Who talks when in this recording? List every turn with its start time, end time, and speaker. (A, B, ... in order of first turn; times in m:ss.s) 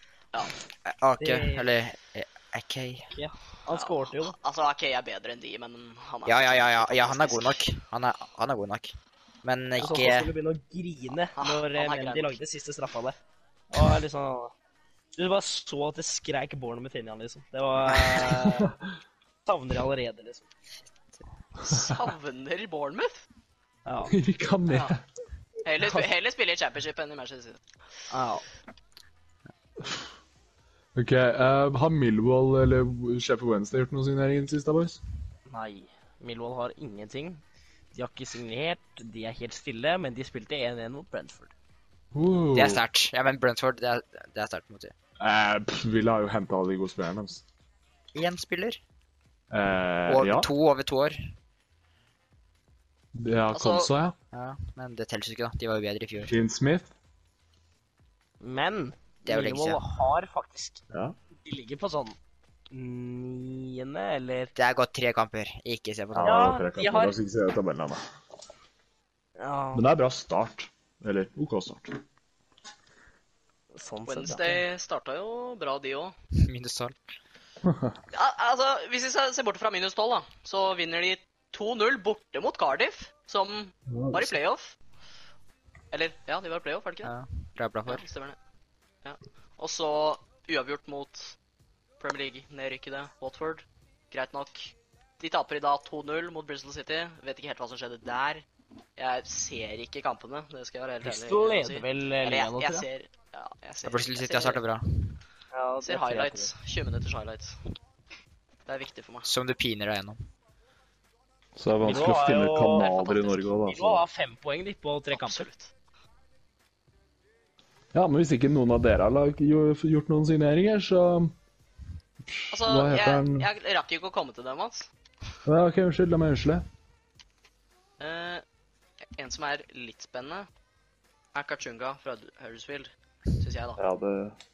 0:00.8-0:03.1 A
0:01.2-0:01.7 B
0:03.1-0:04.4 B
0:03.7-0:07.6 C
0:06.3-0:10.3 A
0:09.8-0:13.2 B
0:11.4-0:12.4 C
0:13.7-0:14.5 B
0:15.2-0:18.7 B
0:19.4-0:20.5 B
0:21.6-0:23.2 C
0:23.9-0:24.1 B
0:24.1-0:25.0 D
0:24.7-0:25.0 C
0:25.6-0:27.6 C
0:28.1-0:28.4 B
0:31.0-0:35.0 D
0:35.5-0:37.4 B
0:37.9-0:41.5 B
0:42.1-0:42.8 D
0:42.5-0:44.9 A
0:45.2-0:47.4 D
0:48.1-0:48.8 A
0:49.5-0:50.5 D
0:50.1-0:51.2 A
0:53.1-0:54.1 D
0:53.5-0:53.9 C
0:54.3-0:56.3 A
0:56.2-0:56.9 D
0:58.4-1:00.8 B
0:59.3-0:59.8 A
1:01.4-1:02.2 B
1:02.7-1:04.5 B
1:04.6-1:06.5 A
1:06.1-1:08.0 D
1:06.2-1:07.2 B
1:09.4-1:09.9 B
1:09.7-1:12.0 D
1:13.7-1:14.6 B
1:14.1-1:16.1 C
1:16.4-1:17.0 A
1:17.6-1:17.9 D
1:18.1-1:24.7 C
1:23.9-1:24.4 D
1:25.9-1:27.1 C
1:27.0-1:28.0 A
1:27.9-1:28.4 C
1:29.0-1:31.4 C
1:32.0-1:38.4 C
1:39.0-1:44.6 C
1:41.0-1:42.8 B
1:43.8-1:45.1 A
1:45.5-1:46.5 B
1:45.8-1:47.6 C
1:48.6-1:49.3 C
1:49.2-1:50.2 A
1:51.6-1:54.0 D
1:51.8-1:52.9 B
1:52.8-1:53.5 C
1:53.6-1:55.4 B
1:55.1-1:55.7 C
1:57.9-2:01.3 D
2:02.2-2:03.5 D
2:02.5-2:04.9 C
2:05.4-2:06.6 D
2:08.0-2:08.4 C
2:09.2-2:10.5 C
2:11.3-2:13.8 C
2:13.8-2:14.4 D